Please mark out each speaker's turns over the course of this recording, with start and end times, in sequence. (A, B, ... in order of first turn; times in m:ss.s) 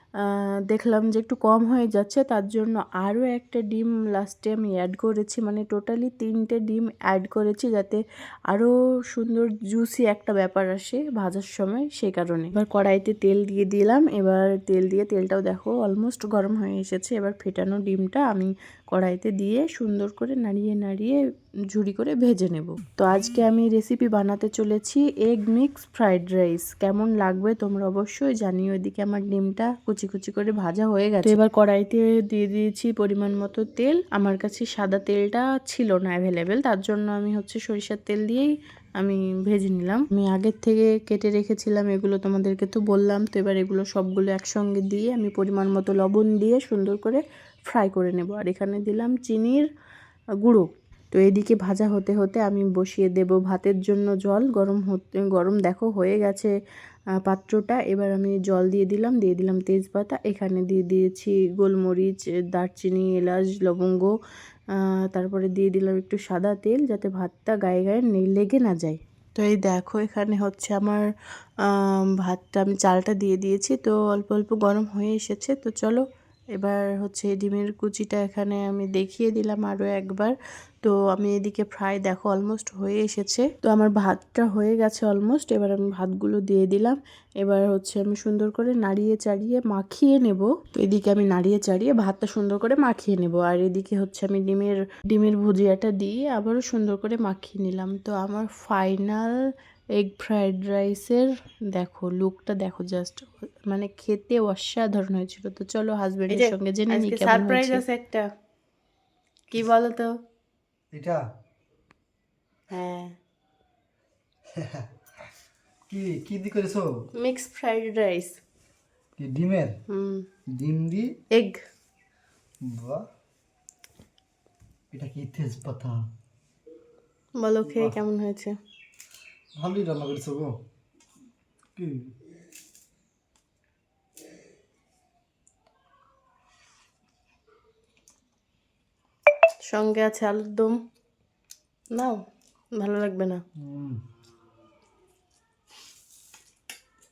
0:00.2-0:49.7 A
0:50.4-0:56.5 A
0:57.2-1:04.1 A
1:04.8-1:11.1 A
1:11.6-1:39.4 A
1:40.0-1:47.8 A
1:46.3-1:48.2 B
1:49.5-1:50.1 B
1:50.9-1:51.2 C
1:52.7-1:53.2 B
1:54.5-1:54.9 C
1:55.9-1:56.9 C
1:57.2-1:58.4 B
1:59.2-1:59.8 C
1:59.9-2:00.2 B
2:00.6-2:01.1 C
2:01.3-2:01.6 B
2:02.6-2:03.0 C
2:04.9-2:06.0 C
2:07.4-2:08.6 B
2:07.6-2:08.0 C
2:09.6-2:10.6 C
2:11.8-2:12.1 C
2:19.6-2:20.8 B
2:21.9-2:22.2 B
2:22.7-2:23.4 B
2:23.6-2:24.0 C